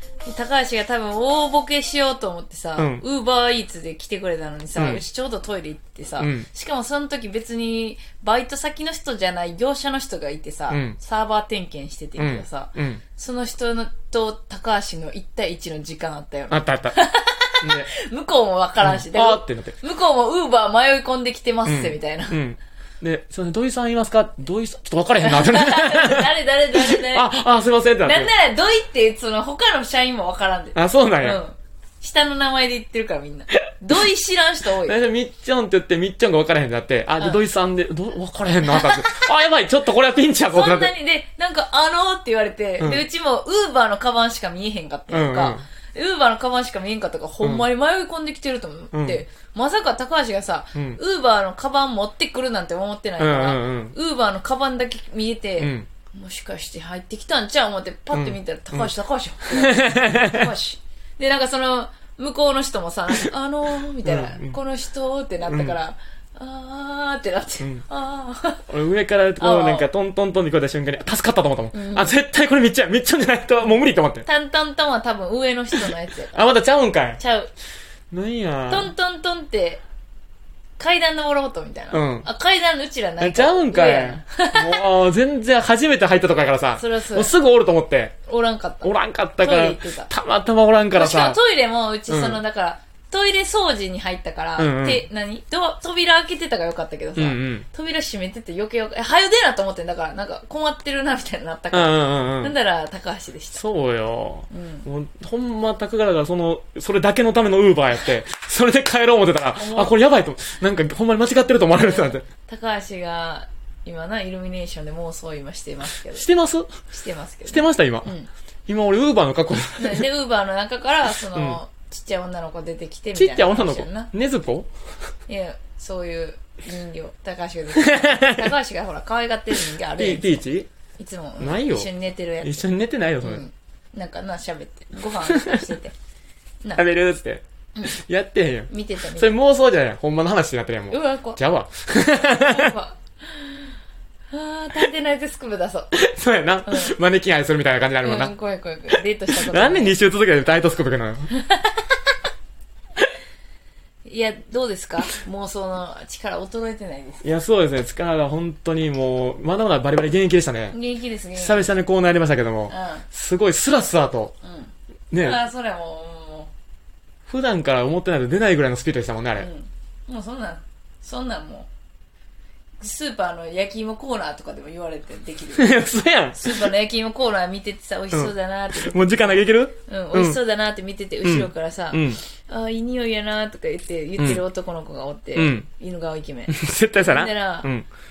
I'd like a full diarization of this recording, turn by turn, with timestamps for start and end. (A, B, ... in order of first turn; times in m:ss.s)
0:00.2-0:22.4 A
0:02.8-0:03.0 B
0:04.8-0:05.0 B
0:06.2-0:06.5 B
0:10.7-0:11.0 B
0:12.2-0:13.0 B
0:16.5-0:17.0 B
0:17.6-0:17.9 B
0:18.8-0:19.8 B
0:21.7-0:28.3 B
0:25.2-0:27.3 A
0:28.0-0:35.0 A
0:30.8-0:31.4 B
0:34.8-0:40.9 B
0:38.7-0:39.3 A
0:40.5-1:08.7 A
0:45.1-0:45.6 B
0:47.4-0:47.7 B
0:48.9-0:49.2 B
0:50.8-0:51.0 B
0:53.2-0:54.0 B
0:55.6-0:55.9 B
0:58.1-0:58.9 B
0:59.5-1:00.5 B
1:04.0-1:04.6 B
1:05.5-1:05.8 B
1:08.7-1:14.3 B
1:09.4-1:09.9 A
1:11.7-1:12.2 A
1:14.2-1:16.4 A
1:15.7-1:17.2 B
1:17.2-1:17.5 A
1:18.1-1:18.9 B
1:18.7-1:19.8 A
1:20.8-1:24.9 A
1:21.9-1:22.3 B
1:23.2-1:28.2 B
1:26.8-1:27.3 A
1:28.3-1:30.1 A
1:28.8-1:31.4 B
1:30.9-1:43.6 A
1:32.1-1:32.4 B
1:34.6-1:35.0 B
1:37.2-1:37.7 B
1:41.7-1:42.6 B
1:43.5-1:52.2 B
1:44.5-1:44.9 A
1:49.6-1:49.9 A
1:51.8-1:56.3 A
1:56.1-1:56.8 B
1:56.9-1:58.3 A
1:57.5-1:58.1 B
1:58.7-2:00.1 B
1:59.8-2:04.1 A
2:01.3-2:01.6 B
2:03.2-2:04.7 B
2:05.3-2:10.4 A
2:07.7-2:08.5 B
2:10.0-2:10.7 B
2:11.0-2:16.0 A
2:11.4-2:11.9 B
2:12.4-2:13.5 B
2:15.2-2:15.7 B
2:16.8-2:22.7 B
2:18.7-2:19.3 A
2:20.9-2:21.4 A
2:22.4-2:23.8 A
2:24.3-2:26.0 A
2:25.9-2:28.3 B
2:26.7-2:27.0 A
2:28.0-2:30.0 A
2:29.3-2:31.3 B
2:31.3-2:32.0 A
2:34.1-2:37.2 A
2:37.2-2:40.8 B
2:40.7-2:41.7 A
2:41.4-2:44.3 B
2:42.7-2:43.0 A
2:44.4-2:46.5 A
2:45.1-2:45.4 B
2:47.3-2:49.5 B
2:49.4-2:51.7 A
2:52.8-3:07.7 A
2:55.6-2:56.7 B
2:58.1-3:00.4 B
3:01.2-3:02.2 B
3:04.2-3:04.4 B
3:05.4-3:05.7 B
3:06.5-3:07.9 B